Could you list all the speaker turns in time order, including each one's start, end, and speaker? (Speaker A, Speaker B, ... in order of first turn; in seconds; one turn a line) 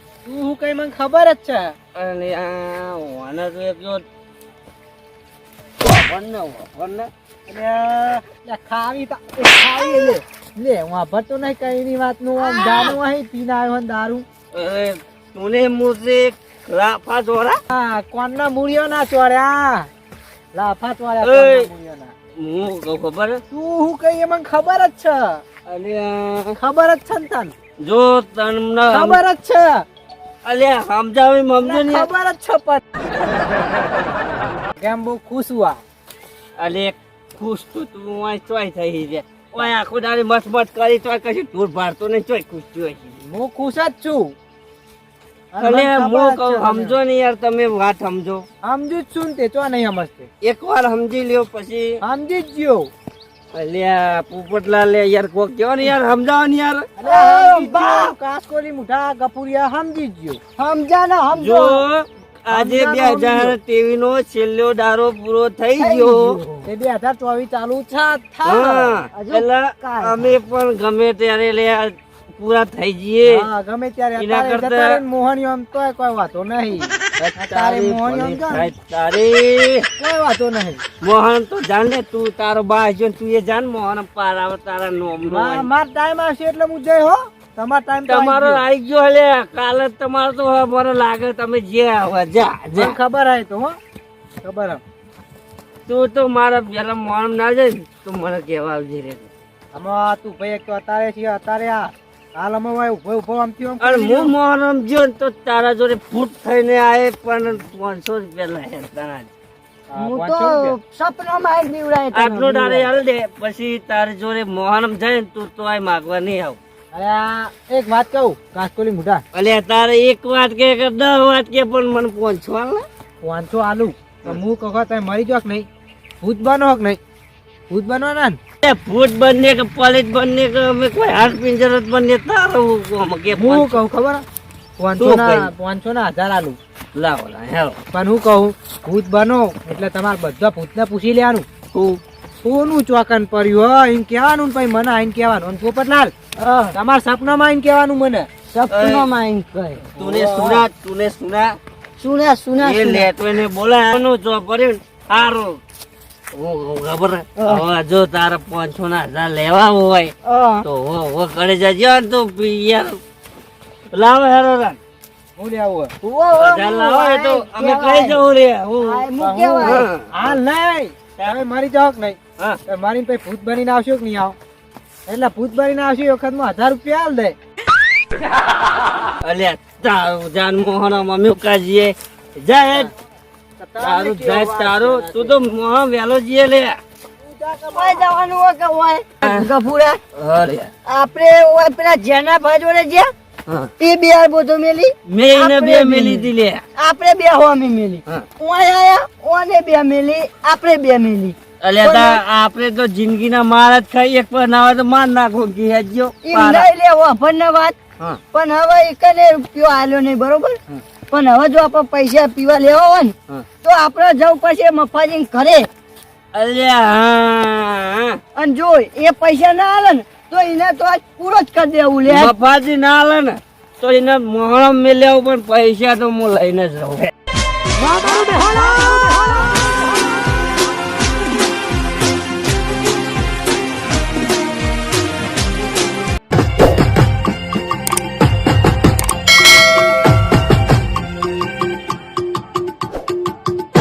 Speaker A: 0.2-1.8
Speaker B: 1.9-4.0
Speaker B: 5.8-7.1
Speaker A: 7.5-14.3
Speaker B: 12.4-13.0
Speaker B: 14.5-17.6
Speaker A: 17.7-19.9
Speaker A: 20.5-22.1
Speaker B: 21.2-21.7
Speaker B: 22.4-23.4
Speaker A: 23.5-25.4
Speaker B: 25.7-26.6
Speaker A: 26.6-27.5
Speaker B: 27.8-29.2
Speaker A: 28.9-29.9
Speaker B: 30.4-32.1
Speaker A: 31.6-32.9
Speaker A: 34.8-35.8
Speaker B: 36.6-43.2
Speaker A: 43.3-44.4
Speaker A: 45.5-47.0
Speaker B: 45.6-48.5
Speaker A: 48.6-50.3
Speaker B: 50.4-52.0
Speaker A: 52.0-52.9
Speaker B: 53.5-56.9
Speaker A: 57.0-60.4
Speaker C: 57.0-58.1
Speaker C: 60.6-61.8
Speaker B: 61.3-66.4
Speaker A: 62.5-63.5
Speaker C: 65.8-66.6
Speaker A: 66.6-69.0
Speaker B: 68.4-73.5
Speaker C: 69.1-70.1
Speaker A: 73.3-78.7
Speaker B: 74.2-75.0
Speaker B: 77.2-79.9
Speaker A: 80.0-80.8
Speaker B: 81.0-85.7
Speaker A: 85.2-88.6
Speaker B: 88.1-93.0
Speaker A: 92.8-93.8
Speaker A: 94.4-94.8
Speaker B: 95.9-99.3
Speaker A: 99.7-104.3
Speaker B: 103.8-109.3
Speaker A: 109.9-110.8
Speaker C: 110.0-112.9
Speaker B: 112.1-116.6
Speaker A: 116.9-119.2
Speaker B: 119.3-122.9
Speaker A: 123.2-125.7
Speaker A: 126.2-127.0
Speaker A: 127.7-128.4
Speaker B: 128.6-133.8
Speaker A: 133.3-134.2
Speaker A: 134.8-136.6
Speaker B: 135.0-135.5
Speaker B: 136.9-137.8
Speaker A: 137.9-141.4
Speaker B: 141.7-142.0
Speaker A: 142.4-146.1
Speaker C: 146.4-146.7
Speaker A: 146.7-148.3
Speaker C: 148.5-149.8
Speaker B: 148.7-149.1
Speaker B: 149.9-151.6
Speaker A: 150.0-150.7
Speaker C: 152.0-153.1
Speaker B: 152.6-155.6
Speaker B: 156.3-163.0
Speaker C: 160.2-160.7
Speaker B: 163.9-164.8
Speaker A: 165.4-165.9
Speaker C: 166.0-168.2
Speaker B: 166.4-169.1
Speaker C: 168.8-169.8
Speaker A: 169.2-174.4
Speaker B: 169.6-170.4
Speaker A: 175.1-177.4
Speaker B: 179.2-182.9
Speaker A: 183.6-185.4
Speaker B: 183.8-186.8
Speaker A: 187.2-188.2
Speaker C: 187.7-190.0
Speaker B: 190.2-190.7
Speaker C: 190.9-193.1
Speaker C: 193.8-202.2
Speaker B: 195.1-196.6
Speaker B: 201.6-206.7
Speaker C: 206.2-207.8
Speaker C: 208.3-210.6
Speaker C: 211.1-215.7
Speaker B: 216.3-218.2
Speaker C: 218.3-222.3
Speaker B: 222.1-227.1
Speaker A: 227.9-229.3